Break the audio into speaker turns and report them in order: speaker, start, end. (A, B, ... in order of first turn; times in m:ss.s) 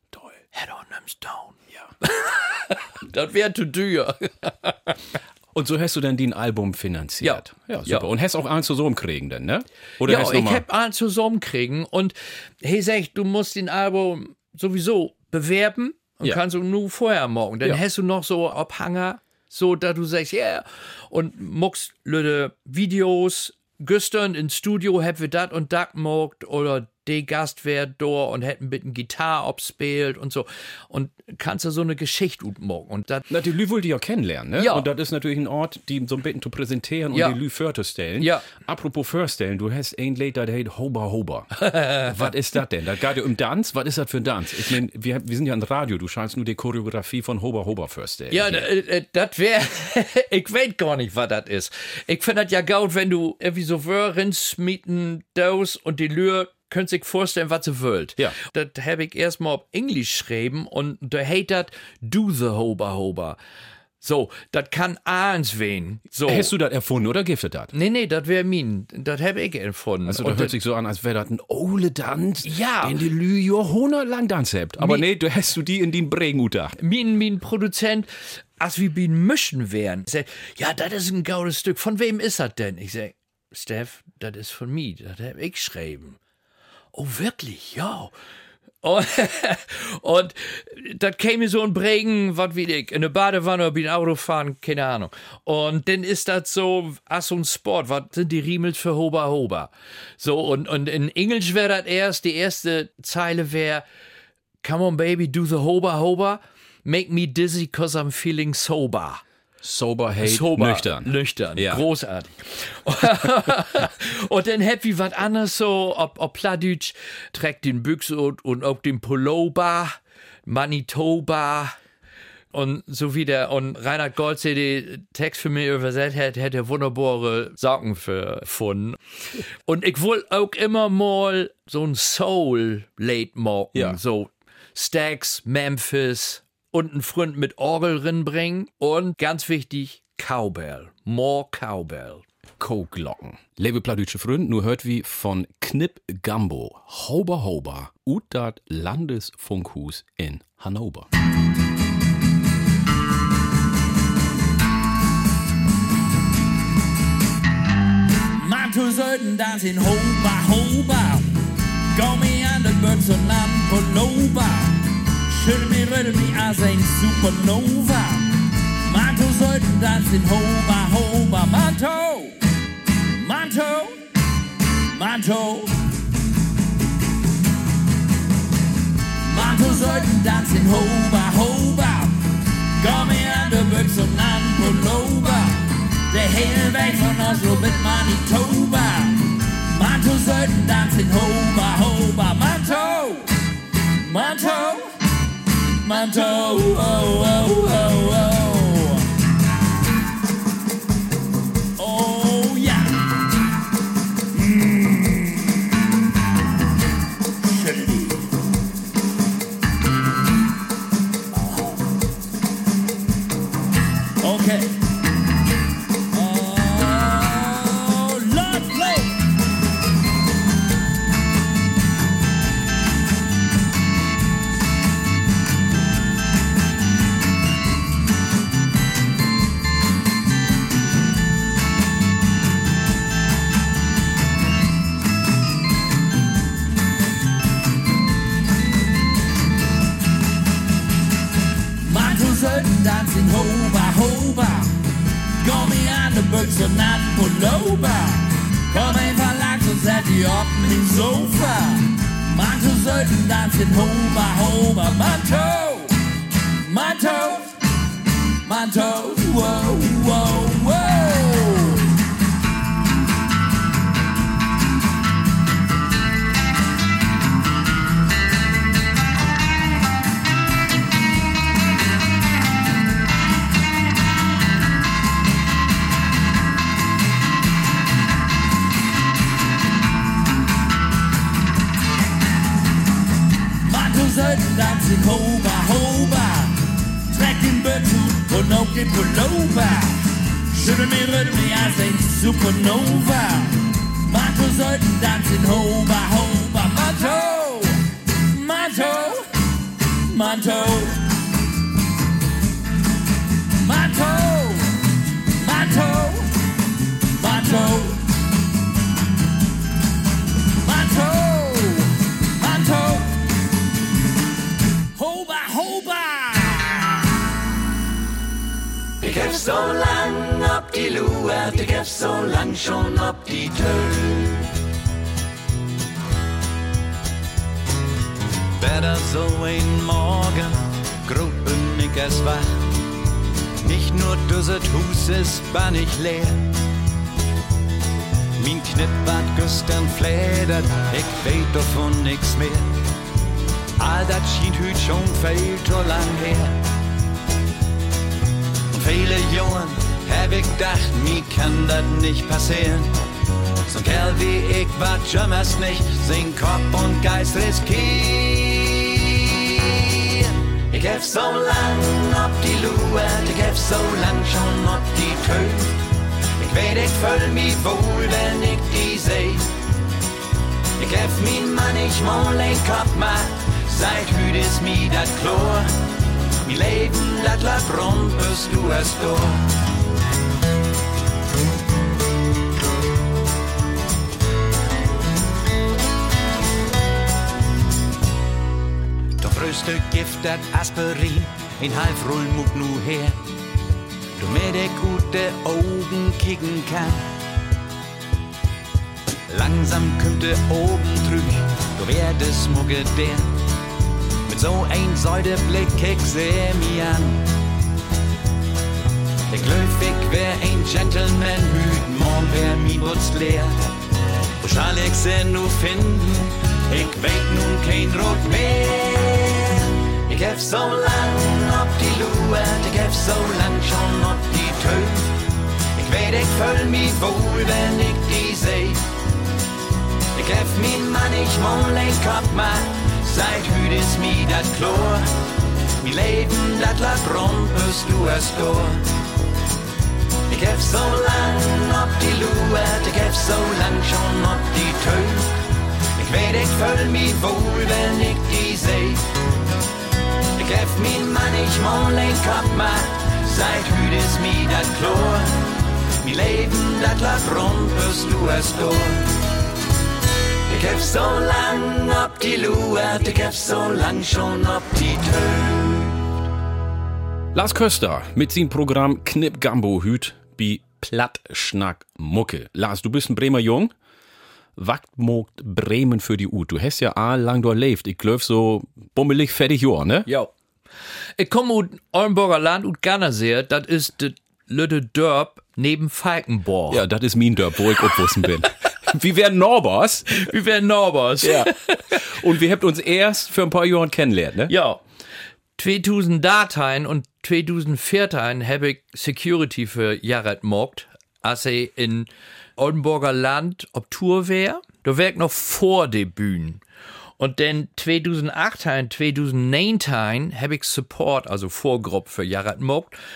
0:00.1-0:00.4 A
0:00.5-0:05.0 B
0:05.5-0:10.6 A
0:07.2-0:08.1 B
0:10.0-0:33.3 B
0:33.3-0:48.7 A
0:34.6-0:34.9 B
0:37.1-0:37.4 B
0:38.2-0:38.5 B
0:41.6-0:42.1 B
0:48.3-1:03.4 B
1:04.0-1:06.5 B
1:06.2-1:07.7 A
1:07.7-1:10.6 B
1:10.1-1:16.8 A
1:12.4-1:13.0 B
1:14.8-1:15.0 B
1:16.8-1:26.2 B
1:26.9-1:28.1 B
1:28.8-1:43.9 B
1:44.6-1:49.2 B
1:49.6-1:51.8 A
1:50.2-2:01.8 B
2:02.5-2:09.0 B
2:09.6-2:22.2 B
2:22.6-2:31.1 A
2:38.4-2:41.3 C
2:41.9-2:48.3 C
2:48.9-2:52.4 C
2:53.2-2:54.0 C
2:54.9-2:55.7 C
2:59.3-3:02.2 C
3:02.8-3:13.3 C
3:14.0-3:14.9 C
3:15.8-3:19.1 C
3:21.8-3:23.0 C
3:24.4-3:25.5 C
3:27.5-3:28.2 C
3:34.2-3:34.8 C
3:36.1-3:39.2 C
4:01.8-4:04.8 C
4:05.4-4:16.0 C
4:16.6-4:17.6 C
4:18.4-4:21.9 C
4:43.6-4:50.0 C
4:50.5-4:59.3 C
5:00.1-5:01.0 C
5:03.6-5:04.7 C
5:05.4-5:06.3 C
5:07.2-5:08.0 C
5:10.6-5:13.1 C
5:15.0-5:17.0 C
5:19.0-5:24.4 D
5:28.6-5:32.7 D
5:33.6-5:36.4 D
5:38.4-5:42.7 D
5:43.8-5:46.6 D
5:48.7-5:52.9 D
5:53.7-5:59.5 D
6:00.7-6:05.8 D
6:06.4-6:09.5 D
6:10.8-6:15.7 D
6:16.4-6:19.5 D
6:29.2-6:33.2 D
6:34.2-6:37.1 D
6:39.3-6:43.3 D
6:44.3-6:47.2 D
6:49.3-6:53.6 D
6:54.4-7:05.2 D
7:05.8-7:08.8 D
7:10.2-7:15.1 D
7:15.8-7:18.8 D
7:20.3-7:25.4 D
7:26.0-7:29.0 D
7:30.4-7:35.4 D
7:36.0-7:39.1 D
7:40.5-7:46.0 D
7:47.3-7:53.7 A
7:54.6-8:00.1 A
8:00.1-8:00.3 B
8:01.2-8:06.8 B
8:06.7-8:10.3 A
8:10.1-8:12.0 B
8:11.2-8:14.5 A
8:14.5-8:14.8 B
8:15.6-8:26.6 B
8:27.2-8:33.0 B